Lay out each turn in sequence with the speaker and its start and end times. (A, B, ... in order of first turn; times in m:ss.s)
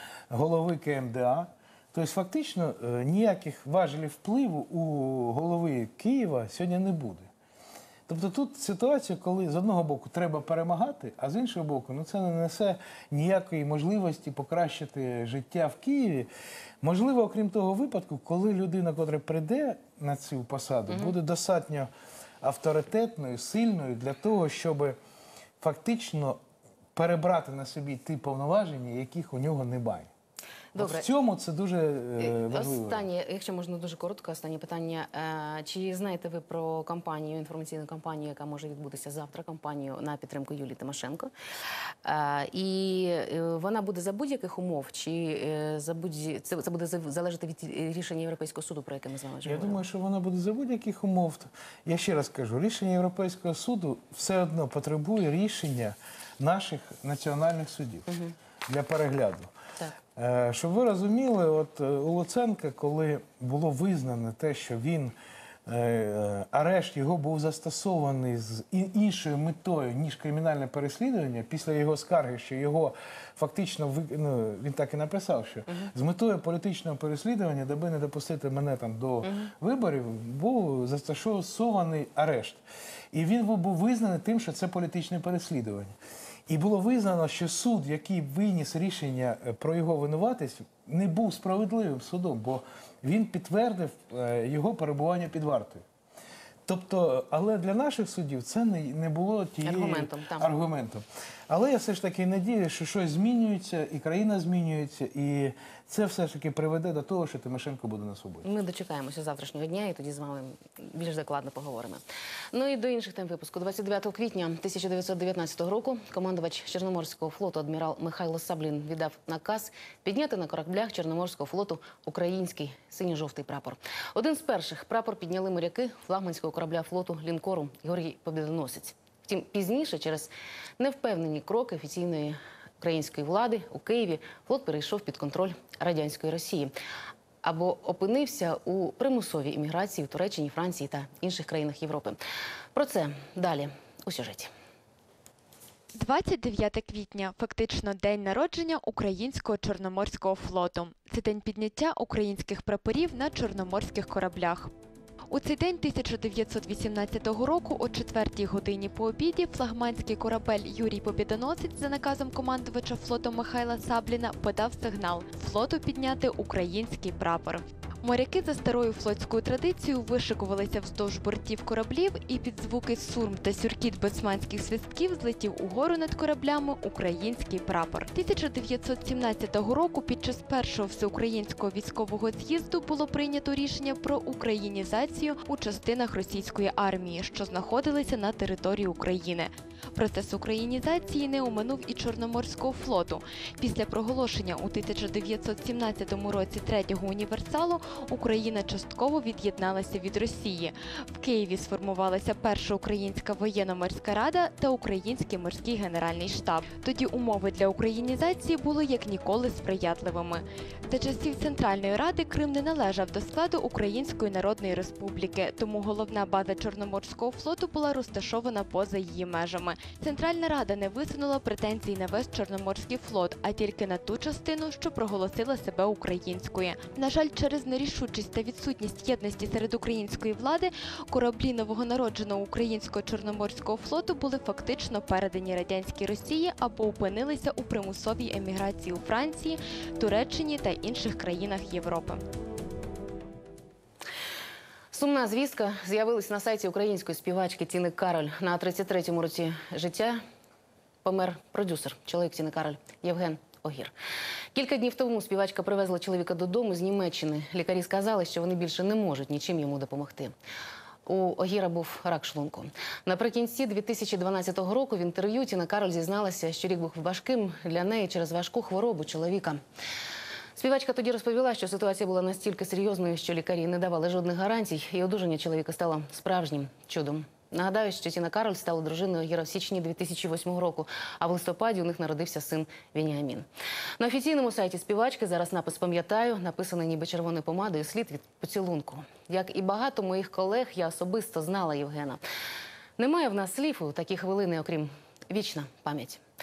0:00.3-0:07.3 A
0:08.1-0:16.3 A
0:16.8-0:21.9 A
0:20.9-0:21.2 B
0:22.4-0:25.0 A
0:25.6-0:26.4 A
0:27.0-0:30.1 A
0:30.7-0:31.1 B
0:30.8-0:33.1 A
0:32.2-0:41.3 B
0:42.0-0:49.8 B
0:49.4-0:58.1 A
0:58.1-0:58.4 B
0:58.7-0:59.5 A
1:00.2-1:05.1 A
1:05.7-1:26.0 A
1:15.7-1:15.9 B
1:19.2-1:19.5 B
1:26.5-1:35.8 A
1:36.7-1:48.5 A
1:39.6-1:40.5 B
1:48.4-2:16.7 B
2:17.4-2:22.2 B
2:22.8-2:24.5 B
2:26.0-2:34.7 C
2:35.3-4:02.2 C
4:04.9-4:10.2 B
4:11.0-4:13.9 B
4:14.5-4:20.3 B
4:21.1-4:29.6 B
4:30.6-4:43.5 B
4:44.0-4:52.2 B
4:53.0-4:56.2 B